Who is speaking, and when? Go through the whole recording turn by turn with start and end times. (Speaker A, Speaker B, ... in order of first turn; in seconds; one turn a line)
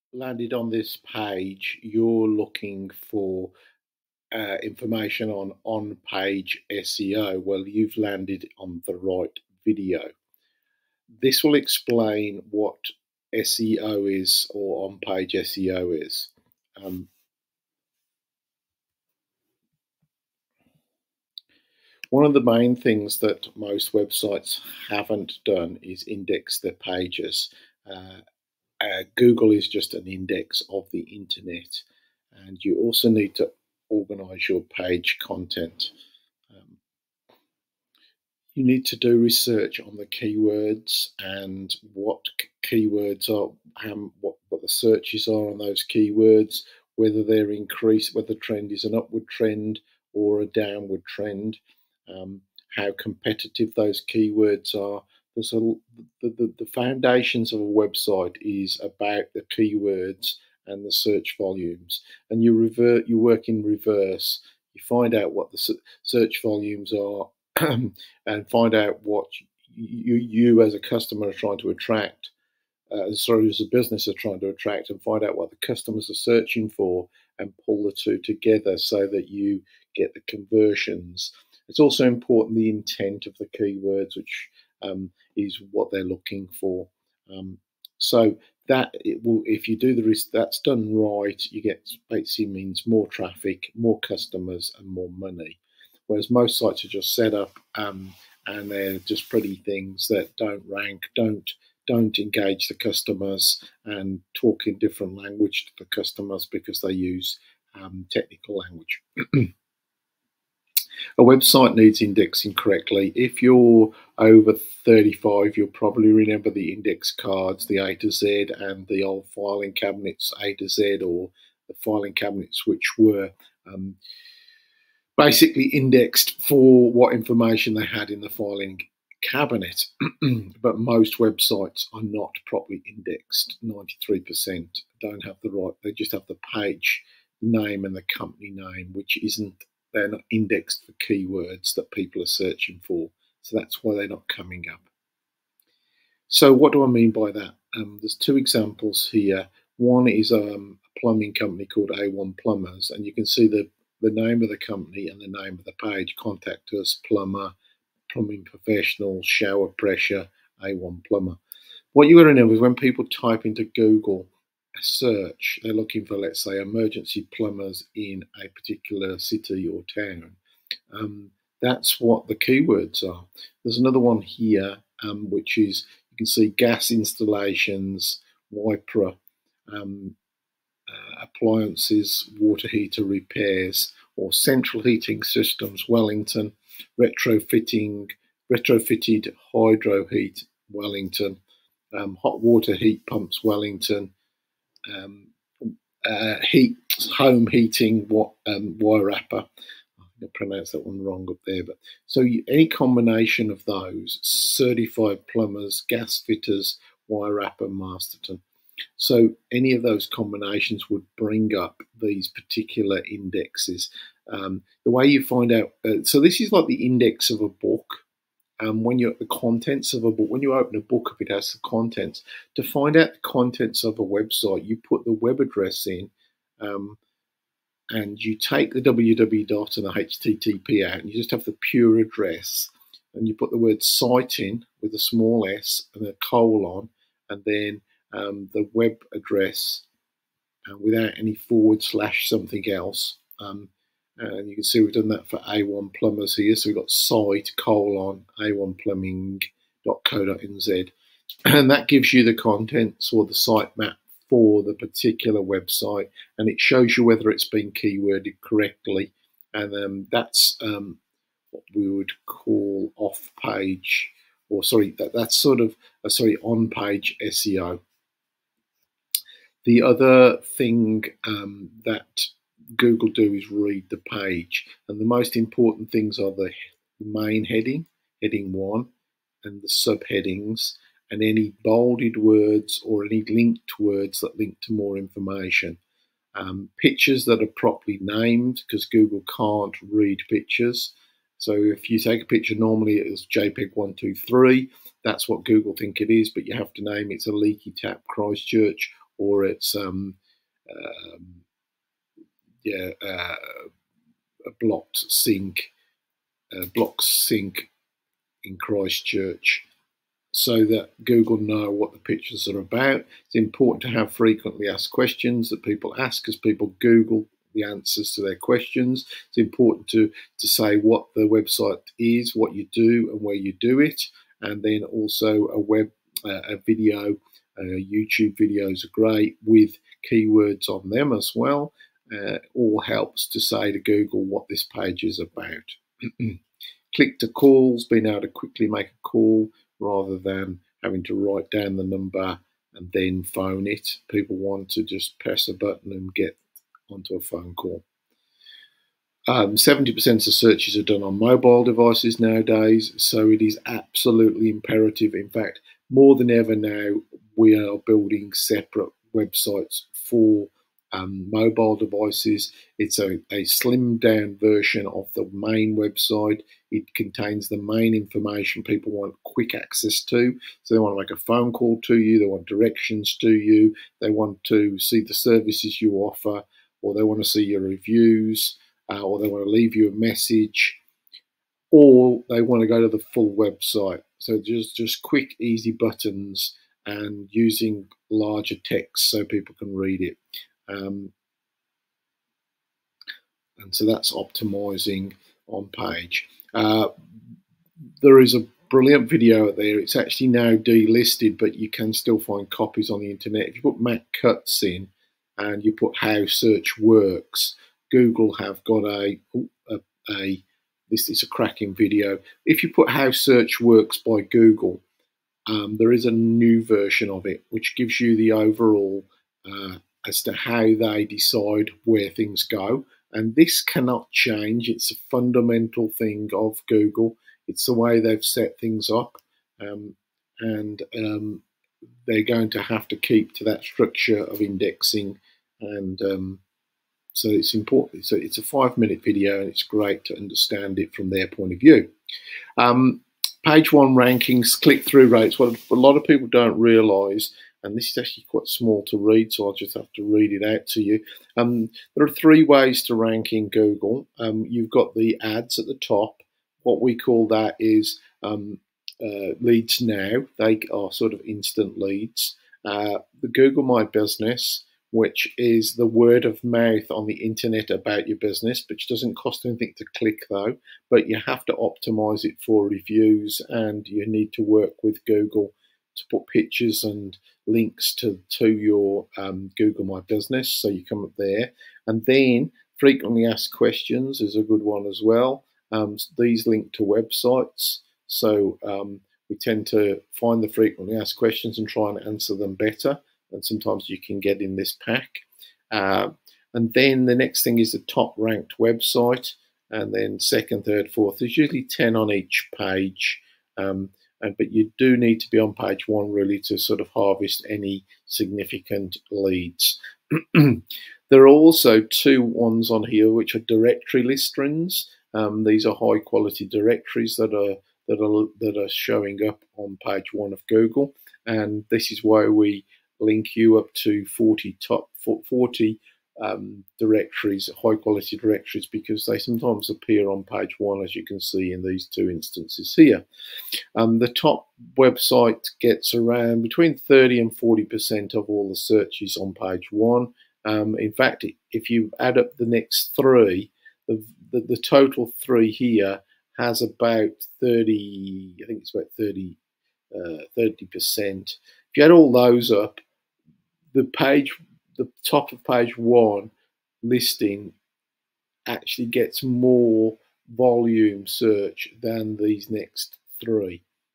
Speaker A: 0.1-3.5
Speaker A: 4.3-10.1
Speaker A: 11.2-17.1
Speaker A: 22.1-28.2
Speaker A: 28.8-35.9
Speaker A: 36.5-36.8
Speaker A: 38.5-72.3
Speaker A: 72.9-95.6
Speaker A: 96.1-109.5
Speaker A: 111.2-124.0
Speaker A: 125.2-144.8
Speaker A: 146.3-157.5
Speaker A: 158.1-161.4
Speaker A: 161.9-170.4
Speaker A: 170.9-179.2
Speaker A: 179.7-180.2
Speaker A: 180.9-191.4
Speaker A: 191.9-194.1
Speaker A: 194.9-199.5
Speaker A: 200.0-208.4
Speaker A: 209.0-218.0
Speaker A: 218.6-227.0
Speaker A: 227.9-239.8
Speaker A: 240.7-250.9
Speaker A: 251.4-261.0
Speaker A: 261.5-267.8
Speaker A: 269.6-278.9
Speaker A: 279.4-285.8
Speaker A: 286.4-300.2
Speaker A: 300.7-301.4
Speaker A: 302.6-303.7
Speaker A: 304.5-305.7
Speaker A: 306.5-307.7
Speaker A: 308.4-309.6
Speaker A: 310.3-336.4
Speaker A: 336.9-346.4
Speaker A: 346.9-347.8
Speaker A: 349.3-380.8
Speaker A: 381.7-391.1
Speaker A: 393.6-396.9
Speaker A: 398.0-414.8
Speaker A: 415.5-431.4
Speaker A: 432.1-436.4
Speaker A: 437.1-441.9
Speaker A: 442.6-533.0
Speaker A: 533.8-549.4
Speaker A: 549.9-552.8
Speaker A: 553.7-556.3
Speaker A: 556.8-557.5
Speaker A: 558.5-563.6